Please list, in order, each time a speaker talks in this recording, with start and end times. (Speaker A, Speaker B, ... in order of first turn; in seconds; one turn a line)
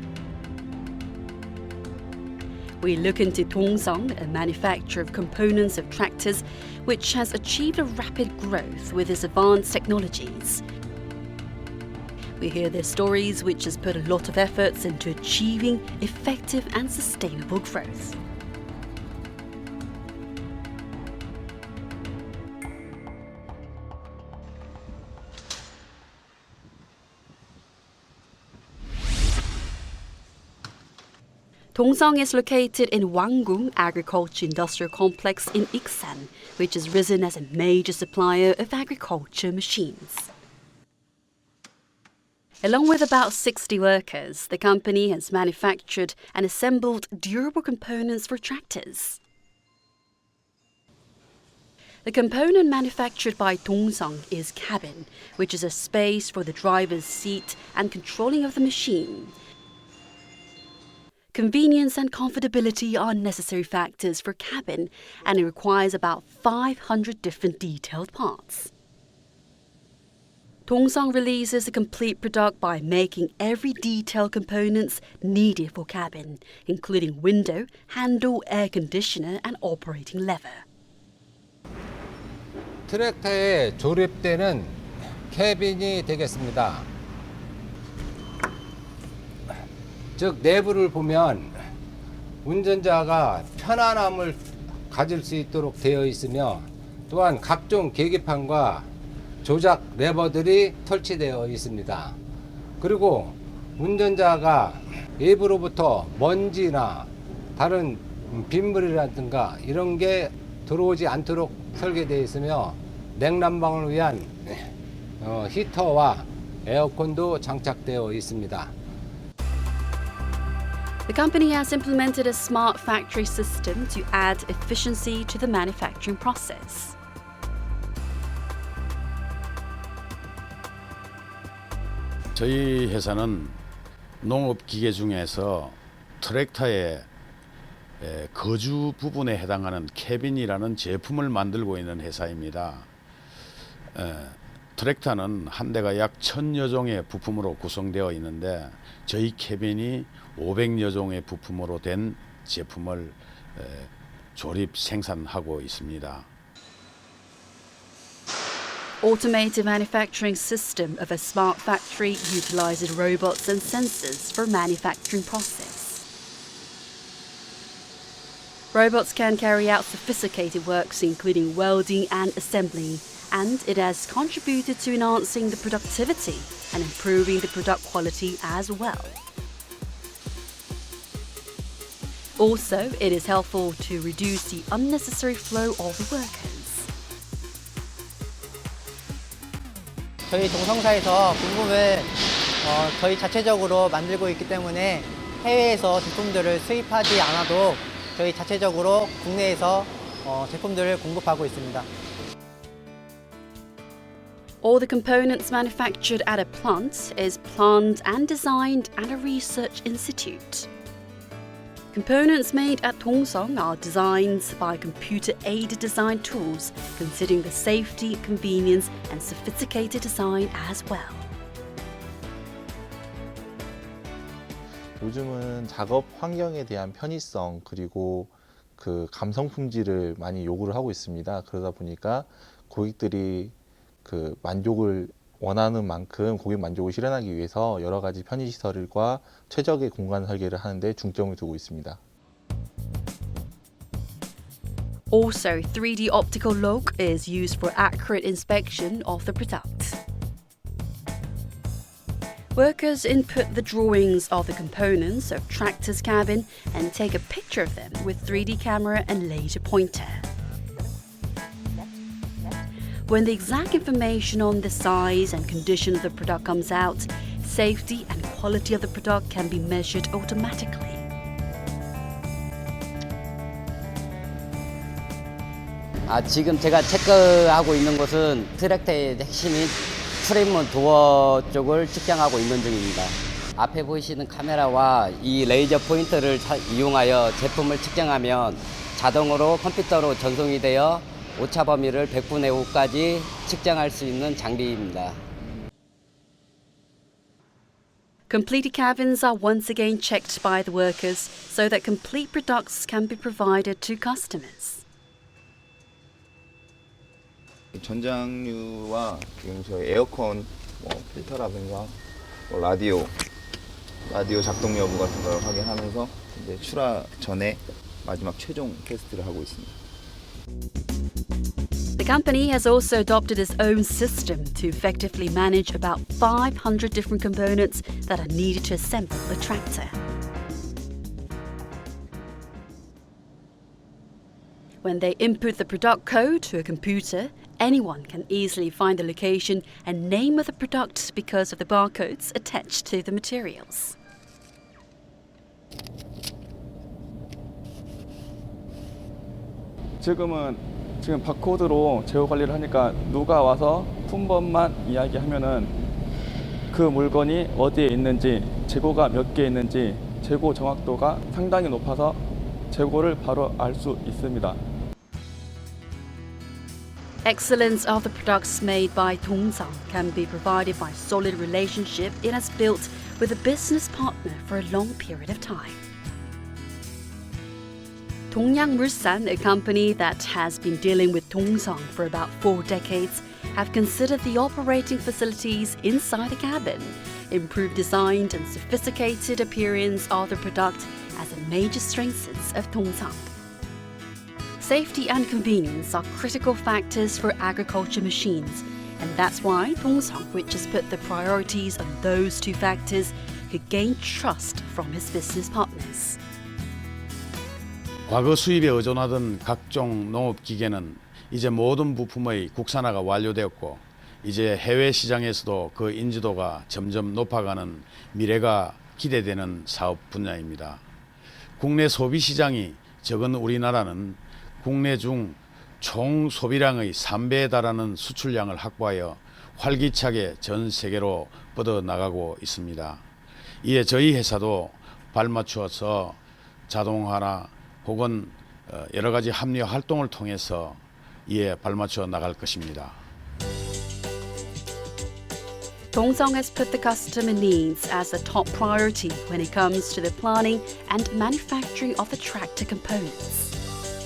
Speaker A: 2.8-10.6
Speaker A: 12.4-18.2
Speaker A: 31.7-40.3
Speaker A: 42.6-49.2
Speaker A: 52.0-59.3
Speaker A: 61.3-68.7
Speaker A: 70.7-80.6
Speaker B: 82.9-84.8
Speaker B: 85.3-86.9
Speaker B: 90.2-91.5
Speaker B: 92.4-98.9
Speaker B: 99.4-102.2
Speaker B: 102.8-114.7
Speaker B: 115.2-118.7
Speaker A: 121.1-127.0
Speaker C: 132.3-133.6
Speaker C: 134.2-137.1
Speaker C: 138.0-142.9
Speaker C: 143.9-156.3
Speaker A: 159.0-166.1
Speaker A: 168.7-179.2
Speaker A: 182.4-186.9
Speaker D: 190.3-201.9
Speaker A: 204.6-210.7
Speaker A: 211.9-221.3
Speaker E: 225.0-242.0
Speaker A: 245.1-250.0
Speaker A: 252.6-260.3
Speaker A: 263.1-271.1
Speaker F: 276.1-295.2
Speaker A: 298.3-304.8
Speaker G: 307.7-313.1
Speaker G: 314.1-319.8
Speaker A: 322.0-330.0
Speaker A: 334.8-344.0
Speaker H: 350.0-355.8
Speaker H: 356.7-364.6
Speaker A: 367.2-375.8
Speaker A: 378.3-393.3
Speaker A: 394.6-406.2
Speaker C: 408.1-420.8
Speaker C: 421.6-433.0
Speaker C: 433.6-443.0
Speaker A: 445.9-453.6